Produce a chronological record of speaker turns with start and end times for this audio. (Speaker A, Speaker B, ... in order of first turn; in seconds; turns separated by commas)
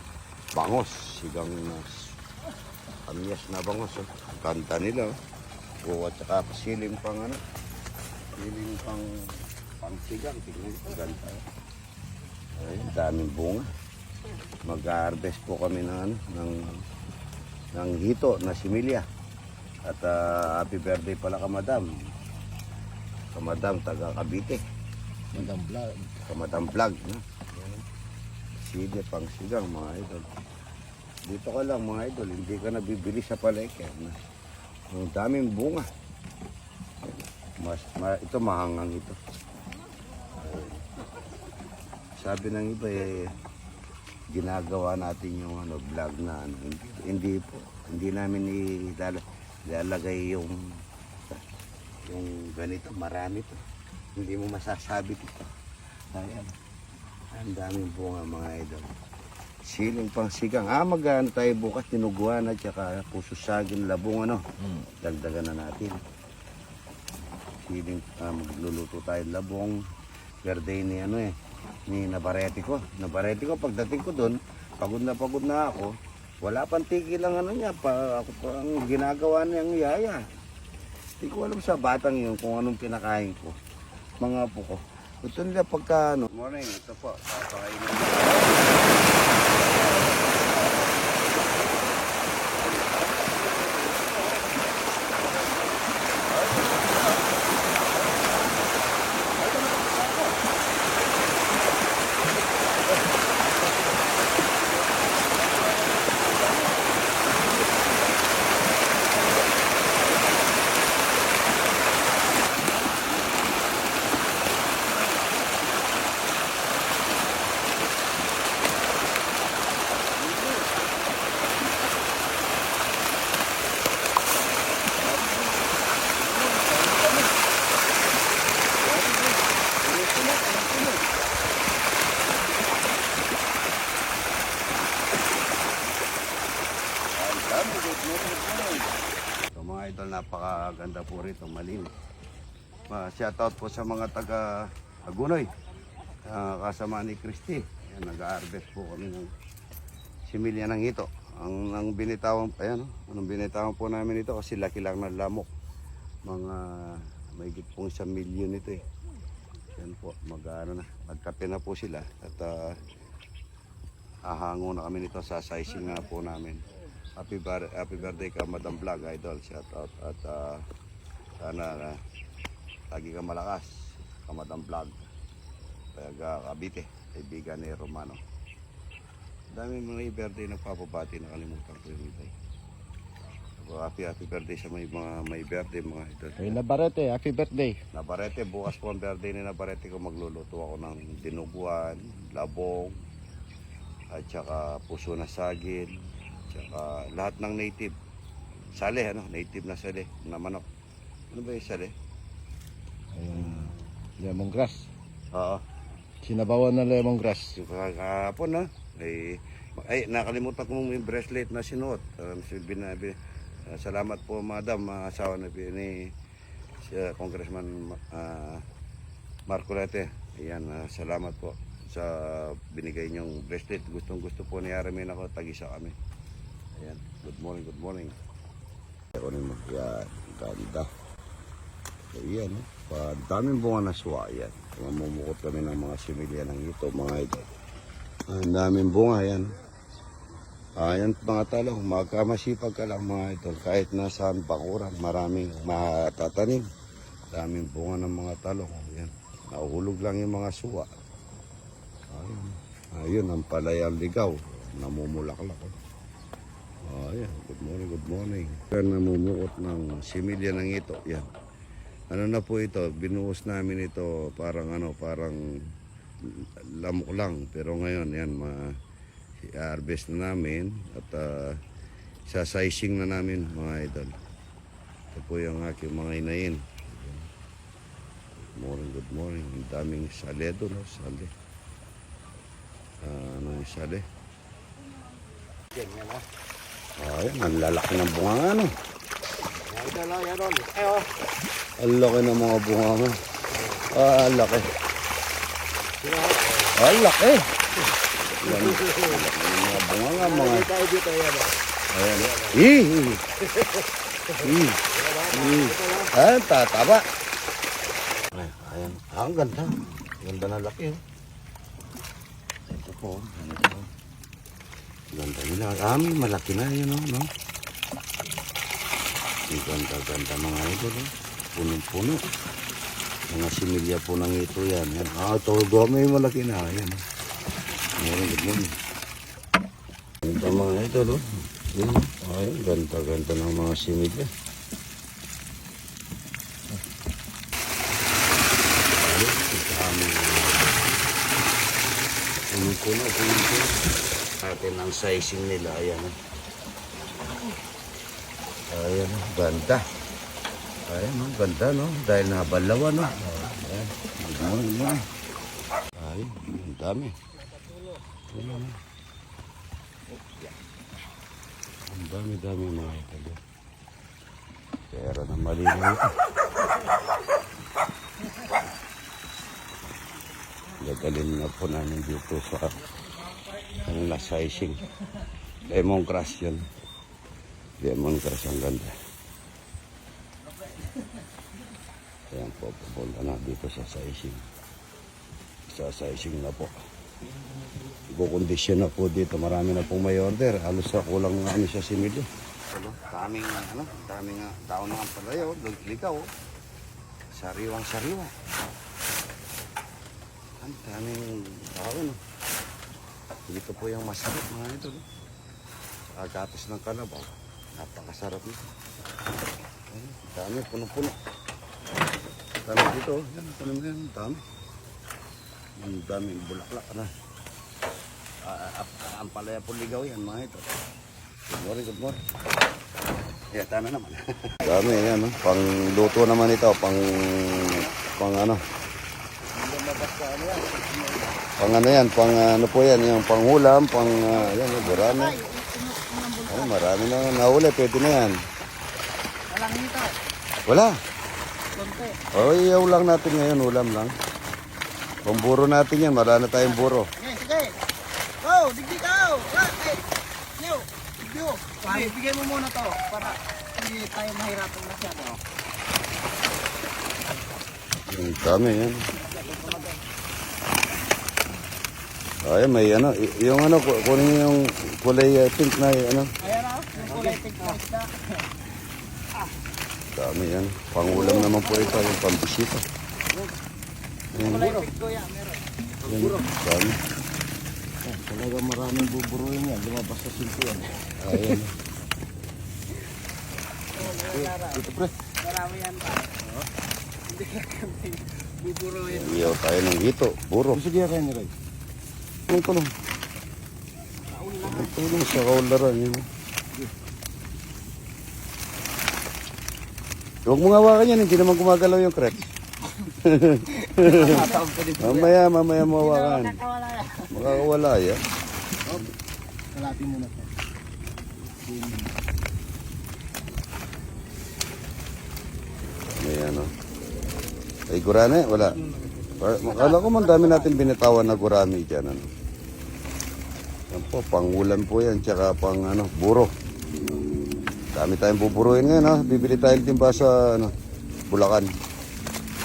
Speaker A: 0.6-2.0, Speaker A: 3.0-5.1, Speaker A: 5.8-7.4, Speaker A: 8.4-9.1, Speaker A: 9.8-11.4, Speaker A: 12.6-13.7, Speaker A: 14.6-16.7, Speaker A: 17.8-19.1, Speaker A: 19.9-21.9, Speaker A: 23.3-24.6, Speaker B: 25.3-26.2, Speaker A: 26.2-27.2, Speaker A: 28.6-30.3, Speaker A: 31.3-34.2, Speaker A: 34.9-35.9, Speaker A: 37.6-39.2, Speaker A: 40.4-40.7, Speaker A: 42.2-43.3, Speaker A: 44.3-50.5, Speaker A: 52.1-53.6, Speaker A: 54.2-55.5, Speaker A: 56.1-56.5, Speaker A: 57.3-58.9, Speaker A: 59.6-64.4, Speaker A: 65.0-66.0, Speaker A: 67.6-69.8, Speaker A: 70.4-71.3, Speaker A: 71.9-80.2, Speaker A: 81.2-83.6, Speaker A: 84.2-91.2, Speaker A: 92.6-93.9, Speaker A: 96.3-97.3, Speaker C: 99.8-100.3, Speaker B: 126.6-127.1, Speaker A: 129.9-130.9, Speaker A: 137.1-138.9, Speaker A: 139.5-141.9, Speaker A: 142.9-145.5, Speaker A: 146.3-149.3, Speaker A: 150.3-155.5, Speaker A: 156.2-158.8, Speaker A: 159.8-162.8, Speaker A: 164.2-166.6, Speaker A: 167.2-170.6, Speaker A: 171.4-172.0, Speaker A: 172.9-175.0, Speaker A: 175.9-178.2, Speaker A: 179.5-182.3, Speaker A: 183.6-186.6, Speaker B: 186.4-187.8, Speaker A: 187.9-192.9, Speaker A: 194.1-195.9, Speaker A: 196.5-197.9, Speaker A: 198.7-200.6, Speaker A: 201.3-201.9, Speaker B: 203.1-204.9, Speaker A: 203.3-203.8, Speaker A: 205.3-205.6, Speaker B: 206.2-207.6, Speaker A: 207.6-216.1, Speaker A: 216.8-218.6, Speaker A: 219.5-225.9, Speaker A: 226.8-228.1, Speaker A: 229.1-230.9, Speaker A: 232.1-237.4, Speaker A: 238.3-239.5, Speaker A: 240.8-246.6, Speaker A: 247.3-250.9, Speaker A: 252.1-255.7, Speaker A: 256.8-261.2, Speaker A: 262.1-265.4, Speaker A: 266.3-268.7, Speaker A: 269.4-271.6, Speaker A: 272.3-274.1, Speaker A: 275.1-277.3, Speaker A: 278.5-281.3, Speaker A: 283.0-284.0, Speaker B: 285.7-286.2, Speaker A: 287.0-288.7, Speaker B: 289.6-291.1, Speaker A: 291.8-293.2, Speaker B: 293.5-293.8, Speaker A: 293.9-294.7, Speaker B: 296.0-296.8, Speaker A: 296.7-297.5, Speaker A: 298.2-300.7, Speaker B: 298.4-299.2, Speaker B: 300.1-301.6, Speaker A: 301.9-303.2, Speaker B: 302.2-302.6, Speaker B: 303.5-306.1, Speaker A: 304.3-307.0, Speaker A: 308.3-311.0, Speaker A: 312.7-313.9, Speaker A: 315.1-317.3, Speaker A: 319.5-322.2, Speaker A: 323.3-327.0, Speaker A: 327.9-328.7, Speaker A: 330.2-334.3, Speaker A: 338.9-340.8, Speaker A: 342.5-343.8, Speaker A: 344.4-346.1, Speaker A: 348.7-349.8, Speaker A: 350.9-355.0, Speaker A: 356.0-357.1, Speaker A: 358.3-358.8, Speaker A: 361.9-363.4, Speaker A: 364.9-366.1, Speaker A: 370.8-372.8, Speaker A: 373.7-374.8, Speaker A: 375.6-376.6, Speaker A: 377.8-378.9, Speaker A: 382.3-384.4, Speaker A: 385.7-386.7, Speaker A: 388.1-396.3, Speaker A: 397.3-398.4, Speaker A: 400.6-402.2, Speaker A: 403.5-405.0, Speaker A: 406.1-408.7, Speaker A: 409.9-411.1, Speaker A: 412.6-414.4, Speaker A: 415.8-417.1, Speaker A: 418.4-420.6, Speaker A: 421.5-422.2, Speaker A: 423.5-428.6, Speaker B: 429.5-431.5, Speaker A: 431.6-435.4, Speaker C: 434.2-436.8, Speaker A: 436.5-438.4, Speaker C: 439.5-440.1, Speaker A: 440.7-440.9, Speaker C: 441.7-442.3, Speaker A: 442.3-444.1, Speaker A: 445.2-447.1, Speaker C: 446.6-447.8, Speaker C: 448.4-450.0, Speaker C: 450.6-455.4, Speaker A: 458.1-459.1, Speaker C: 459.1-460.0, Speaker A: 462.4-466.3, Speaker C: 466.4-468.2, Speaker B: 467.1-467.4, Speaker A: 470.1-472.8, Speaker C: 471.1-472.0, Speaker A: 474.3-474.9, Speaker C: 474.4-475.6, Speaker A: 476.0-477.0, Speaker B: 478.0-481.6, Speaker A: 481.2-481.7, Speaker C: 483.9-484.8, Speaker B: 484.0-485.1, Speaker C: 485.4-486.6, Speaker C: 487.2-489.6, Speaker A: 489.0-490.8, Speaker B: 490.7-491.5, Speaker A: 492.5-492.9, Speaker C: 494.3-494.9, Speaker A: 494.6-496.3, Speaker A: 500.5-502.4, Speaker A: 503.0-506.6, Speaker B: 504.0-505.2, Speaker C: 504.0-504.8, Speaker C: 505.9-507.6, Speaker A: 507.3-508.2, Speaker B: 509.7-510.5, Speaker B: 511.6-512.1, Speaker A: 516.1-516.7, Speaker A: 517.9-518.8, Speaker A: 519.4-522.3, Speaker C: 519.6-520.8, Speaker A: 523.9-526.5, Speaker A: 527.9-530.7, Speaker A: 531.3-531.7